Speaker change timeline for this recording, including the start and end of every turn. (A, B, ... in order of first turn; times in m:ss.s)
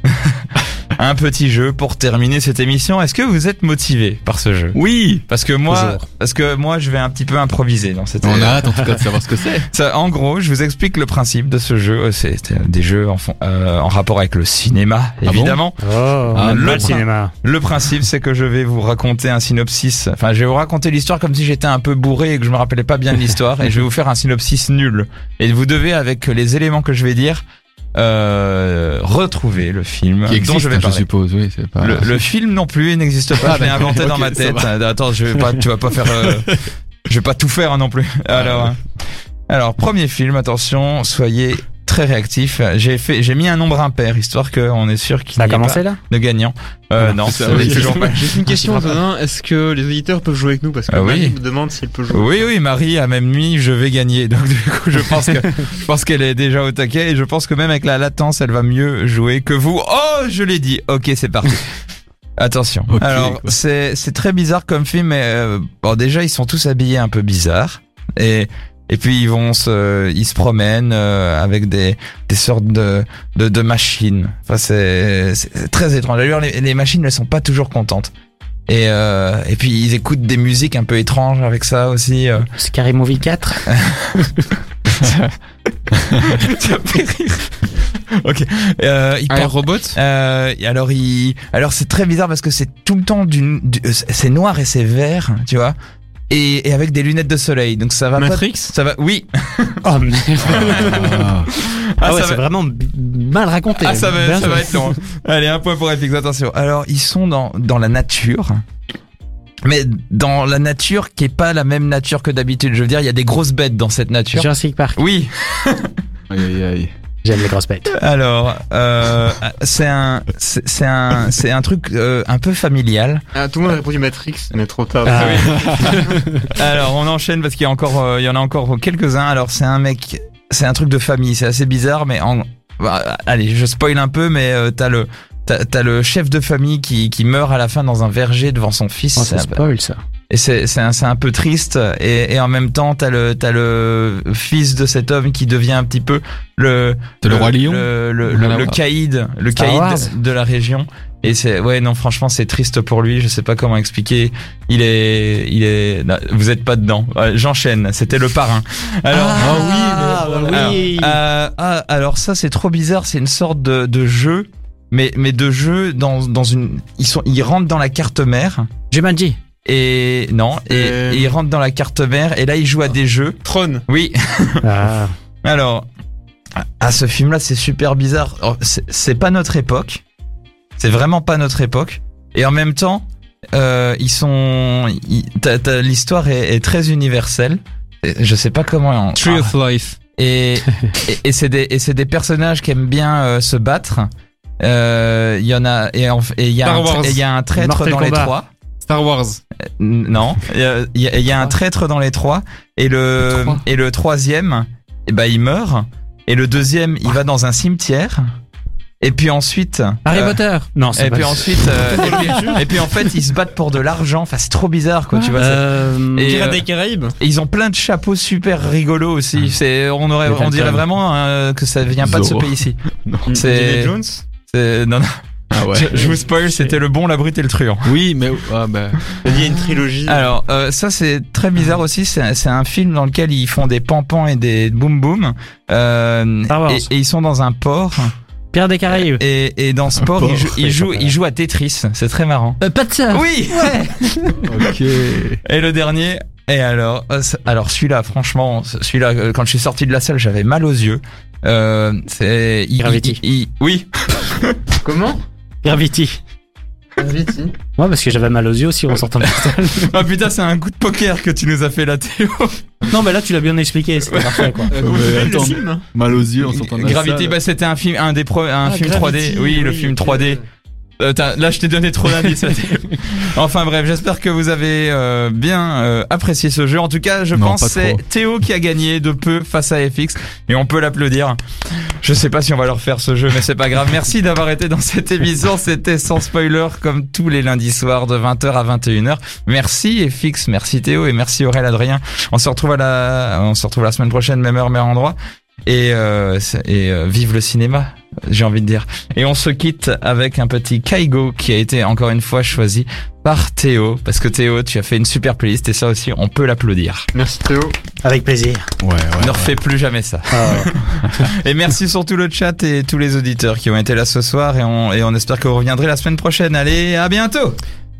0:00.9-0:08.9 A
0:05.7-0:06.0 B
0:08.2-0:09.7 C
0:09.6-0:15.8 A
0:15.2-0:15.6 C
0:15.8-0:17.3 B
0:16.3-0:17.0 C
0:16.3-0:27.4 A
0:28.0-0:31.1 A
0:30.3-0:32.2 C
0:31.8-0:36.5 A
0:33.4-0:34.7 C
0:37.1-0:38.8 A
0:38.4-0:38.7 C
0:39.5-0:48.4 A
0:45.4-0:46.0 B
0:47.1-0:48.0 B
0:47.2-0:47.7 C
0:47.4-0:52.5 D
0:48.5-0:49.0 B
0:50.9-0:51.4 A
0:52.1-1:01.6 A
1:02.4-1:18.1 A
1:02.9-1:03.6 C
1:18.7-1:22.5 A
1:22.6-1:23.7 B
1:23.7-1:25.3 A
1:26.0-1:27.7 A
1:28.2-1:35.8 A
1:29.3-1:30.0 D
1:36.3-1:39.9 A
1:38.2-1:38.7 D
1:39.8-1:41.3 B
1:40.5-1:42.4 A
1:40.8-1:41.5 C
1:42.0-1:45.0 B
1:43.8-1:48.6 A
1:49.6-1:55.9 A
1:54.3-1:55.0 B
1:56.3-1:56.9 C
1:57.2-1:57.9 B
1:57.9-2:03.2 A
2:03.4-2:06.2 D
2:05.0-2:05.9 B
2:05.1-2:05.7 A
2:06.4-2:19.6 A
2:19.2-2:20.0 B
2:20.3-2:48.7 A
2:27.2-2:28.8 C
2:29.6-2:30.1 B
2:39.1-2:41.2 B
2:39.4-2:40.8 C
2:48.9-2:49.4 B
2:49.6-2:54.7 A
2:50.7-2:51.4 D
2:53.4-2:53.8 D
2:54.6-2:55.1 B
2:55.4-2:55.9 A
2:56.8-3:00.0 A
3:00.8-3:09.6 A
3:09.2-3:10.0 D
3:10.2-3:14.1 A
3:14.6-3:18.5 A
3:16.6-3:17.2 D
3:17.6-3:18.4 B
3:18.8-3:19.4 D
3:19.8-3:28.2 A
3:29.0-3:30.4 A
3:30.0-3:32.5 B
3:30.9-3:36.6 A
3:32.0-3:32.6 D
3:35.2-3:36.5 B
3:36.3-3:37.2 D
3:37.2-3:42.8 A
3:40.2-3:40.8 B
3:42.0-3:43.3 C
3:43.3-3:44.2 D
3:43.3-3:43.9 A
3:44.5-3:45.1 A
3:45.5-3:46.1 C
3:45.7-3:47.9 A
3:47.8-3:49.0 C
3:49.2-3:50.3 D
3:50.1-3:58.1 A
3:56.5-3:56.9 B
3:58.5-3:59.2 B
3:58.9-4:03.8 A
4:00.0-4:00.8 C
4:00.8-4:01.1 B
4:02.6-4:04.4 B
4:04.4-4:05.4 C
4:05.4-4:14.7 A
4:12.8-4:13.2 B
4:14.8-4:15.2 D
4:15.6-4:16.2 B
4:17.0-4:17.6 D
4:17.7-4:20.0 B
4:19.2-4:22.6 A
4:22.9-4:24.8 B
4:24.1-4:24.6 A
4:24.7-4:25.8 D
4:24.8-4:27.4 C
4:26.4-4:30.4 A
4:28.6-4:29.6 B
4:29.2-4:30.4 D
4:31.0-5:07.1 A
4:37.3-4:38.0 C
5:07.2-5:07.8 D
5:08.0-5:08.6 B
5:08.8-5:09.5 C
5:09.2-5:17.6 A
5:10.3-5:10.7 B